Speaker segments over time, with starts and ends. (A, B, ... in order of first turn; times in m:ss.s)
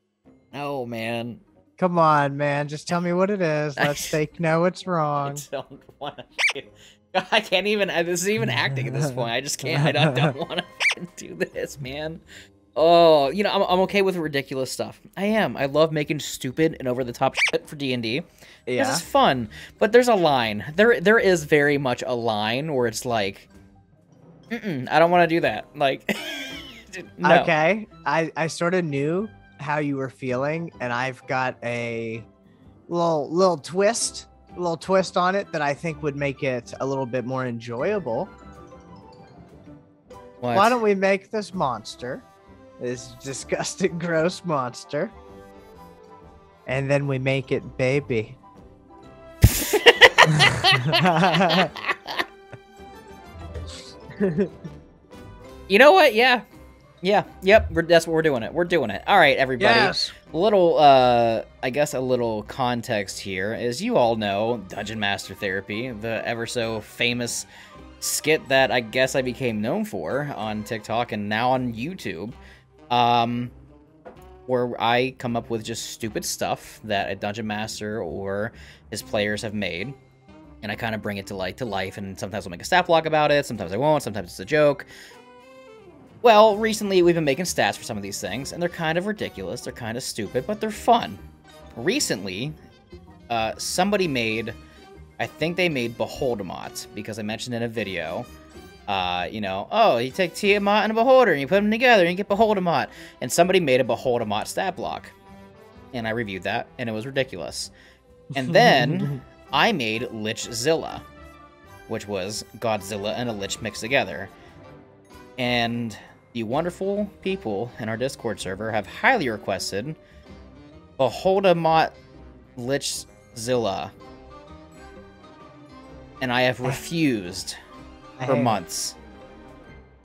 0:00.5-0:01.4 A
0:01.8-0:05.4 B
0:03.8-0:04.1 A
0:05.2-0:12.2 A
0:09.0-0:10.3 B
0:12.7-0:23.5 A
0:18.7-0:19.0 B
0:24.5-0:27.5 A
0:27.2-0:32.3 B
0:32.9-0:38.3 B
0:40.4-0:40.8 A
0:40.5-0:42.2 B
0:42.8-0:45.1 B
0:46.7-0:48.4 B
0:49.5-0:52.2 A
0:50.9-0:51.7 B
0:54.2-0:54.5 B
0:55.7-0:56.4 A
0:57.0-1:07.5 A
0:59.6-1:00.1 B
1:08.0-1:12.4 A
1:12.9-1:13.5 A
1:14.5-1:20.0 A
1:20.6-1:24.9 A
1:26.2-1:31.2 A
1:31.8-1:32.6 A
1:33.3-1:34.6 A
1:35.2-1:38.3 A
1:38.9-1:45.1 A
1:45.9-1:47.7 A
1:48.3-1:51.0 A
1:48.5-1:49.2 B
1:51.9-1:54.3 A
1:55.4-2:00.0 A
2:01.0-2:02.0 A
2:02.6-2:03.9 A
2:06.2-2:07.6 A
2:08.2-2:08.6 B
2:08.3-2:09.0 A